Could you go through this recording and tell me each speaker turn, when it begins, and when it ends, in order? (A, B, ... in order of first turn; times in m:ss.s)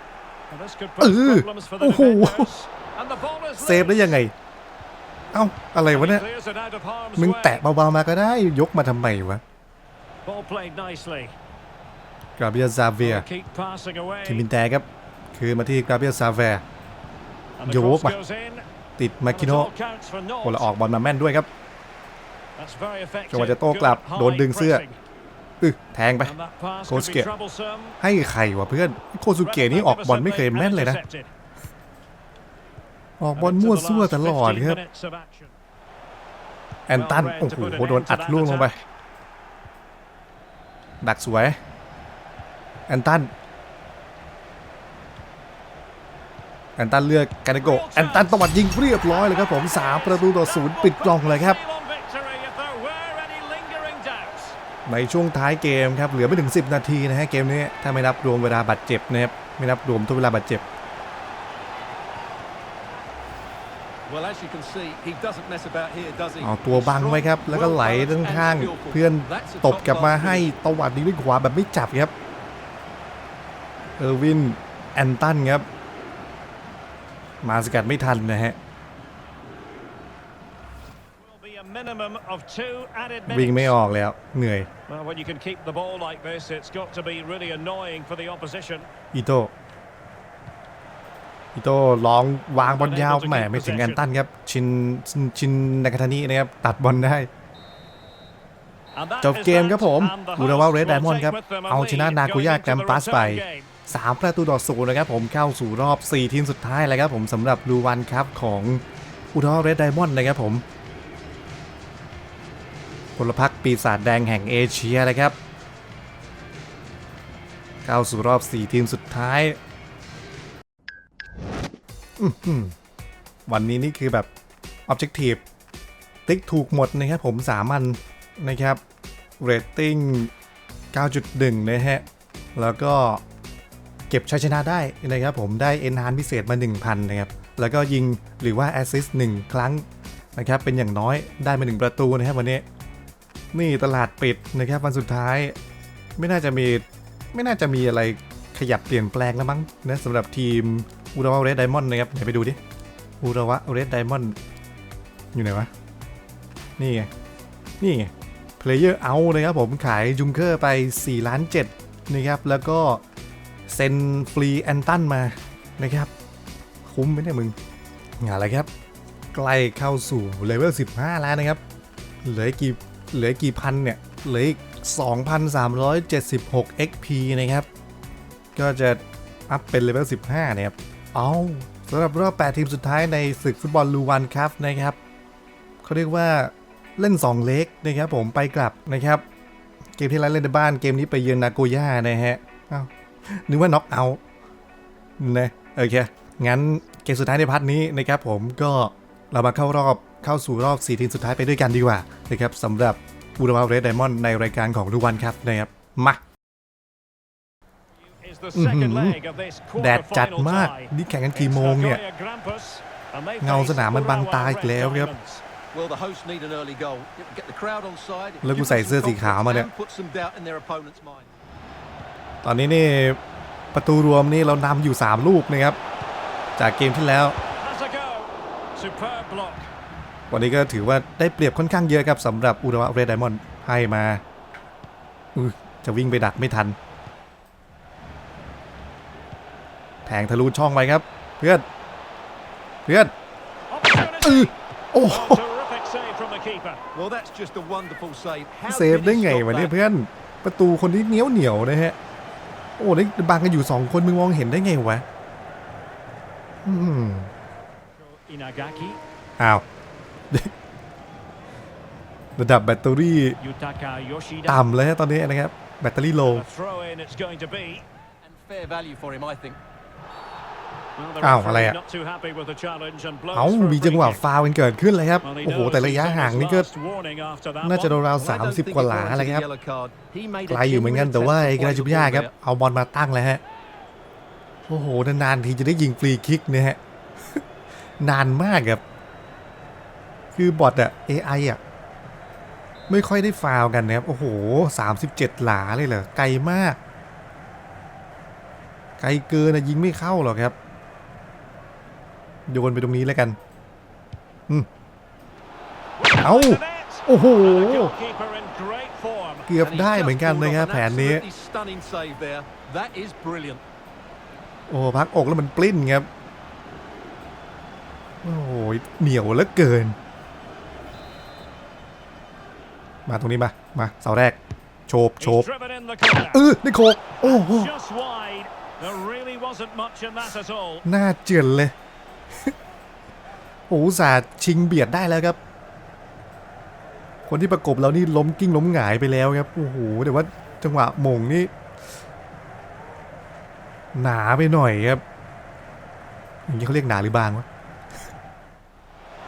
0:00.5-0:04.2 A
0:01.0-0:02.5 B
0:03.6-0:04.3 B
0:05.3-0:06.2 B
0:05.9-0:07.6 A
0:07.2-0:09.4 B
0:10.2-0:11.4 A
0:12.4-0:13.2 B
0:13.0-0:14.4 A
0:14.2-0:16.6 B
0:17.6-0:18.6 A
0:17.7-0:18.1 B
0:19.0-0:19.7 B
0:19.3-0:20.7 A
0:20.4-0:21.5 B
0:22.6-0:25.0 A
0:23.3-0:24.8 B
0:25.6-0:26.3 B
0:26.2-0:28.0 A
0:26.9-0:27.3 B
0:28.0-0:31.0 B
0:29.4-0:31.3 A
0:33.2-0:34.8 B
0:33.4-0:35.5 A
0:36.9-0:38.7 B
0:36.9-0:38.8 A
0:41.0-0:41.6 B
0:42.9-0:43.3 B
0:46.8-0:51.6 B
0:47.6-0:48.5 A
0:49.0-0:54.6 A
0:54.9-1:00.6 B
1:04.1-1:10.5 C
1:06.4-1:12.1 B
1:14.0-1:15.7 B
1:17.4-1:18.6 B
1:21.2-1:23.8 A
1:23.3-1:24.7 B
1:24.9-1:28.9 A
1:29.1-1:29.5 B
1:31.5-1:37.3 B
1:32.5-1:34.0 A
1:38.9-1:43.7 A
1:39.2-1:50.6 B
1:53.2-1:55.4 B
1:57.8-1:59.6 B
2:02.2-2:02.8 B
2:03.5-2:04.3 B
2:04.9-2:05.4 B
2:06.2-2:08.8 B
2:09.4-2:10.3 B
2:10.9-2:13.2 B
2:14.1-2:19.8 B
2:20.4-2:22.6 B
2:23.5-2:25.6 B
2:26.2-2:32.6 B
2:33.2-2:34.4 B
2:35.3-2:35.7 B
2:36.8-2:37.1 B
2:37.8-2:43.0 B
2:43.7-2:46.1 B
2:46.8-2:47.6 B
2:48.2-2:48.7 B
2:49.3-2:51.6 B
2:52.2-2:57.7 B
2:58.6-3:05.0 B
3:05.8-3:09.2 B
3:10.0-3:14.2 B
3:15.2-3:26.2 B
3:28.0-3:35.4 A
3:28.5-3:29.2 B
3:29.8-3:32.0 B
3:33.4-3:35.1 B
3:35.7-3:41.3 C
3:38.4-3:39.7 B
3:42.4-3:43.2 B
3:43.7-3:45.8 B
3:46.6-3:47.4 B
3:47.5-3:49.7 A
3:50.3-3:54.2 B
3:55.4-3:56.8 B
4:00.1-4:01.6 B
4:02.9-4:03.1 B
4:03.7-4:06.8 A
4:04.2-4:05.4 B
4:06.9-4:09.7 C
4:08.7-4:12.0 B
4:12.8-4:15.0 B
4:16.6-4:17.3 B
4:18.0-4:19.0 A
4:19.4-4:19.6 B
4:22.4-4:23.4 B
4:23.4-4:24.7 A
4:24.5-4:26.4 B
4:26.2-4:27.8 A
4:28.2-4:29.6 C
4:31.0-4:34.2 A
4:31.2-4:31.8 B
4:33.3-4:36.7 B
4:35.2-4:38.0 A
4:37.6-4:39.5 B
4:38.2-4:42.3 C
4:40.5-4:43.4 B
4:44.7-4:46.8 B
4:48.0-4:48.8 B
4:50.3-4:51.6 B
4:52.9-4:56.8 B
4:59.0-5:00.6 B
5:02.5-5:03.4 B
5:06.0-5:09.5 A
5:06.2-5:07.9 B
5:09.5-5:11.2 B
5:09.6-5:13.6 C
5:14.7-5:16.1 B
5:18.2-5:20.0 B
5:23.1-5:25.5 B
5:25.2-5:26.5 A
5:26.3-5:27.7 B
5:27.2-5:30.9 A
5:30.8-5:31.7 B
5:33.7-5:35.4 B
5:37.3-5:41.5 B
5:43.9-5:45.0 B
5:46.5-5:47.4 B